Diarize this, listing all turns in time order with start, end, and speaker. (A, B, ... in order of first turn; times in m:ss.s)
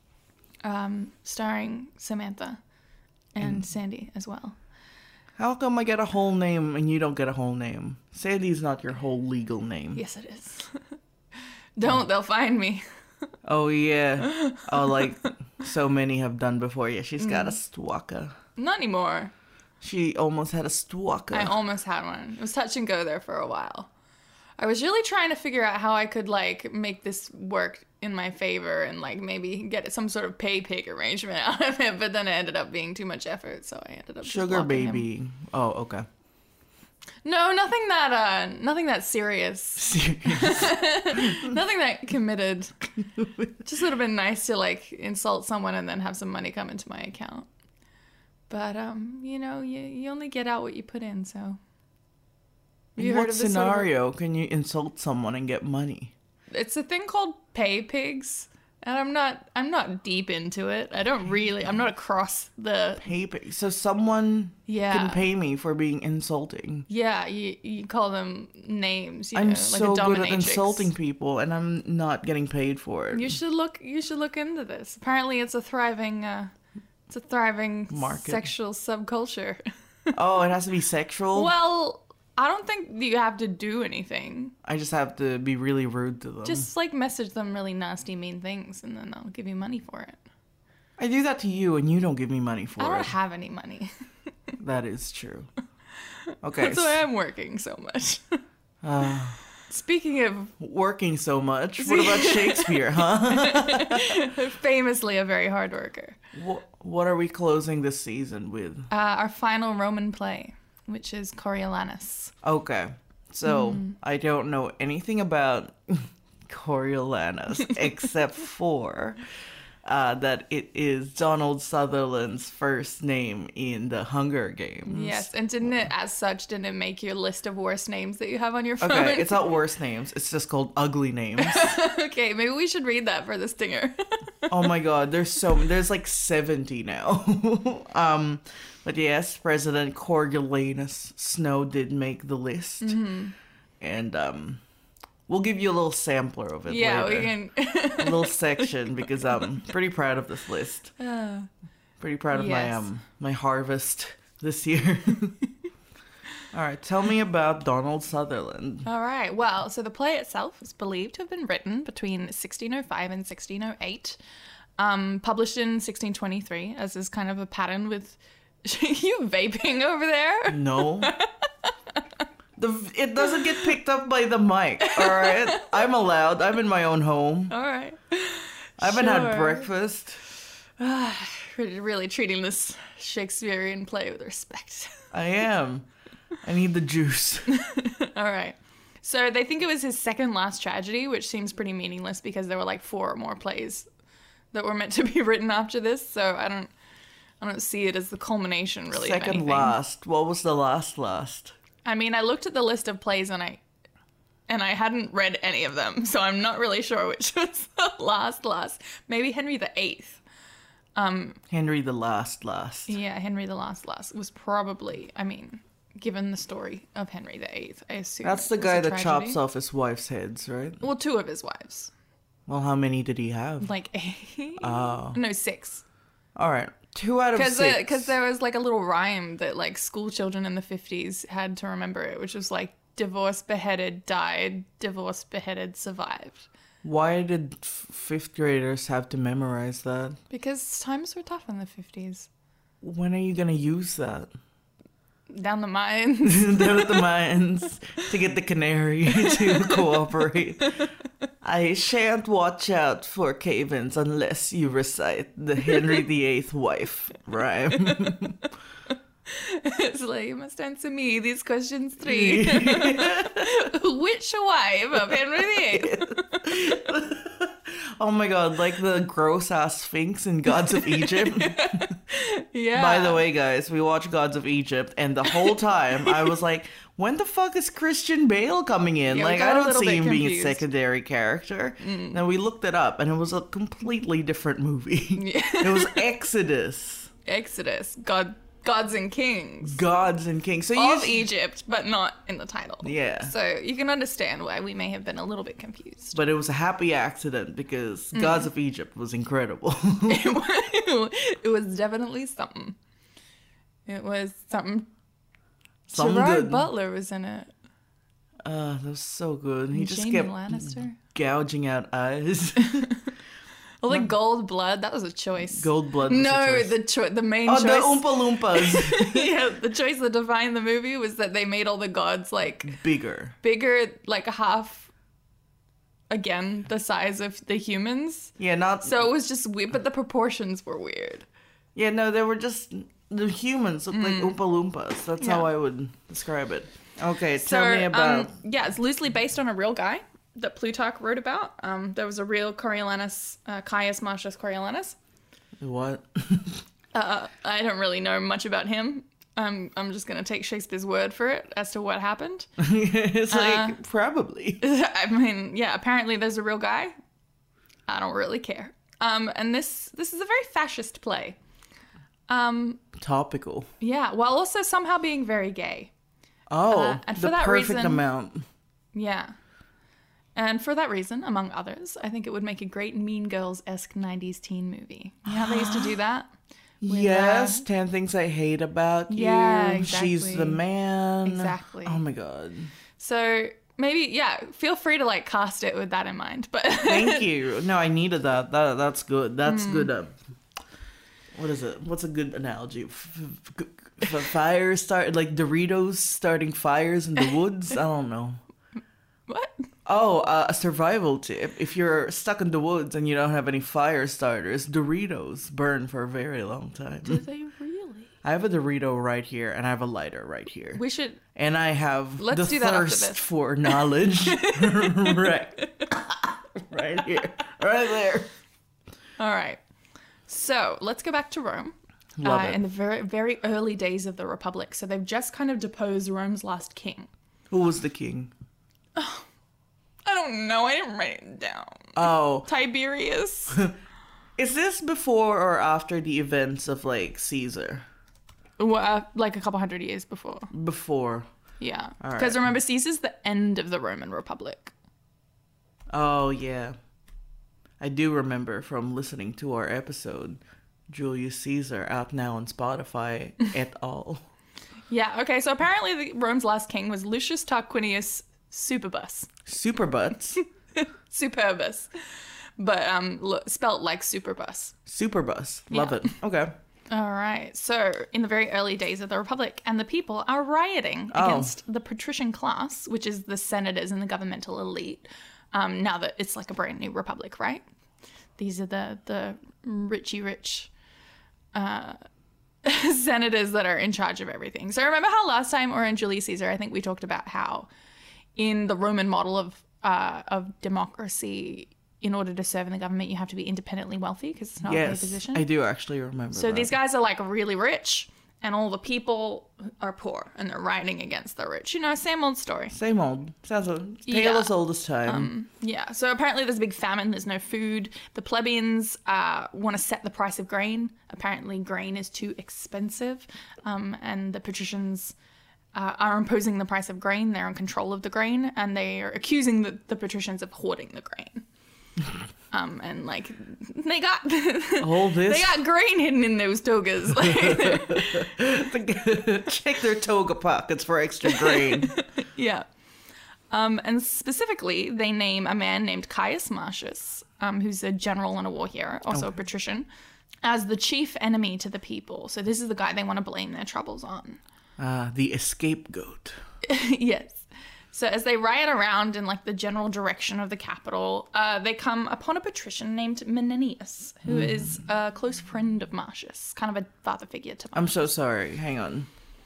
0:00.6-0:02.6 A
0:03.4-0:04.6 A
0:05.4-0:10.0 B
0:10.0-0:11.0 A
0:11.8-0:12.8 A
0:13.4-0:18.3 B
0:14.2-0:15.3 A
0:17.2-0:17.6 A
0:18.6-0:19.3 A
0:19.8-0:21.6 B
0:21.3-0:23.9 A
0:24.6-0:35.1 A
0:34.2-0:36.1 B
0:37.2-0:42.9 A
0:39.8-0:41.6 B
0:43.6-0:47.5 A
0:48.5-0:51.6 A
0:53.0-0:56.1 B
0:53.0-0:53.9 A
0:56.5-1:03.1 A
1:03.0-1:06.9 B
1:04.7-1:05.2 A
1:06.9-1:10.9 A
1:09.4-1:13.3 B
1:13.1-1:16.5 A
1:17.1-1:20.1 A
1:17.9-1:18.4 B
1:20.1-1:21.5 B
1:21.3-1:24.6 A
1:24.6-1:26.7 B
1:26.4-1:30.2 A
1:31.0-1:33.1 B
1:32.8-1:33.9 A
1:34.6-1:35.5 B
1:36.3-1:38.4 A
1:36.4-1:37.0 B
1:38.8-1:39.4 B
1:39.7-1:40.6 A
1:40.6-1:44.2 B
1:41.8-1:46.2 A
1:46.3-1:48.9 B
1:48.9-1:52.3 A
1:52.4-1:59.2 B
1:53.4-1:54.0 A
1:59.8-2:05.9 B
2:04.9-2:09.4 A
2:08.8-2:11.8 B
2:11.4-2:14.5 A
2:14.5-2:23.0 B
2:22.8-2:23.3 A
2:23.8-2:24.6 B
2:25.3-2:27.4 B
2:26.7-2:29.2 A
2:28.0-2:30.9 B
2:31.0-2:31.5 A
2:32.0-2:35.4 B
2:32.3-2:32.9 A
2:36.5-2:38.9 B
2:38.8-2:44.2 A
2:44.8-2:51.5 A
2:50.5-2:51.1 B
2:52.6-2:57.5 B
2:54.8-2:55.7 A
2:57.5-2:59.7 A
2:58.8-3:00.2 B
3:00.8-3:05.0 A
3:05.1-3:05.9 B
3:06.4-3:07.6 B
3:07.5-3:13.9 A
3:14.5-3:16.7 A
3:17.4-3:19.8 A
3:18.9-3:21.6 B
3:21.8-3:23.6 A
3:24.5-3:30.2 A
3:31.0-3:31.4 A
3:31.5-3:33.0 B
3:32.9-3:39.4 A
3:38.2-3:40.8 B
3:40.8-3:41.9 A
3:42.5-3:43.7 B
3:43.6-3:45.8 A
3:44.6-3:45.2 B
3:46.4-3:48.2 B
3:47.3-3:56.5 A
3:56.8-4:00.2 B
4:00.3-4:02.3 A
4:02.8-4:04.3 B
4:05.3-4:07.1 A
4:06.2-4:10.8 B
4:09.1-4:09.8 A
4:11.4-4:18.5 B
4:19.3-4:26.4 A
4:22.0-4:23.6 B
4:25.1-4:31.9 B
4:30.6-4:33.2 A
4:32.7-4:47.1 B
4:35.3-4:35.5 A
4:39.1-4:40.6 A
4:41.8-4:42.2 A
4:45.2-4:46.1 A
4:47.2-4:49.8 A
4:49.6-4:51.3 B
4:50.8-4:56.2 A
4:52.8-4:53.3 B
4:56.1-5:00.4 B
4:58.1-4:58.5 A
5:00.1-5:02.8 A
5:03.9-5:04.9 A
5:05.9-5:06.7 B
5:05.9-5:07.5 A
5:08.4-5:12.9 B
5:09.7-5:11.0 A
5:12.6-5:13.1 A
5:13.8-5:22.8 A
5:15.4-5:16.8 B
5:17.4-5:19.4 B
5:22.6-5:23.4 B
5:23.4-5:24.9 A
5:26.1-5:31.2 A
5:28.4-5:29.1 B
5:31.8-5:38.3 B
5:33.9-5:34.4 A
5:35.2-5:35.5 A
5:37.4-5:45.0 A
5:45.6-5:46.6 B
5:47.0-5:52.5 A
5:52.6-5:54.6 B
5:53.3-5:53.8 A
5:54.6-5:56.9 A
5:57.9-6:01.4 A
6:02.3-6:02.9 A
6:03.0-6:03.7 B
6:03.8-6:05.9 A
6:06.5-6:08.4 B
6:06.7-6:08.0 A
6:08.9-6:09.4 A
6:10.4-6:16.3 A
6:15.3-6:16.0 B
6:16.8-6:22.7 B
6:16.9-6:17.7 A
6:19.1-6:20.6 A
6:21.2-6:22.0 A
6:23.0-6:27.3 A
6:26.8-6:30.1 B
6:29.4-6:29.9 A
6:31.4-6:38.4 B
6:39.3-6:39.5 A
6:39.9-6:47.2 B
6:47.0-6:48.1 A
6:48.2-6:50.8 B
6:50.8-6:51.2 A
6:51.4-6:58.3 B
6:52.2-6:55.9 A
6:59.2-6:59.6 A
7:00.3-7:07.1 A
7:02.2-7:02.6 B
7:07.5-7:08.3 B
7:09.0-7:09.3 A
7:10.0-7:13.6 A
7:12.0-7:12.5 B
7:14.4-7:17.8 B
7:18.6-7:20.5 A
7:20.5-7:21.3 B
7:21.6-7:24.7 A
7:22.0-7:22.4 B
7:25.9-7:26.8 B
7:27.8-7:34.2 B
7:34.9-7:39.3 A
7:39.4-7:40.4 B
7:40.4-7:41.9 A
7:42.6-7:44.8 A
7:44.9-7:46.5 B
7:45.7-7:46.1 A
7:46.9-7:57.6 A
7:51.1-7:51.5 B
7:58.4-8:00.7 A
8:01.5-8:02.0 A
8:02.6-8:07.7 A
8:08.4-8:15.4 A
8:14.7-8:16.7 B
8:16.3-8:22.7 A
8:22.7-8:25.3 B
8:24.1-8:24.5 A
8:25.0-8:35.1 A
8:35.8-8:41.4 A
8:42.5-8:48.3 A
8:44.8-8:45.6 B
8:47.2-8:52.0 B
8:51.2-8:52.7 A
8:53.5-8:59.9 A
9:00.4-9:04.4 A
9:04.8-9:06.4 B
9:06.6-9:18.0 A
9:14.3-9:14.8 B
9:17.7-9:19.1 B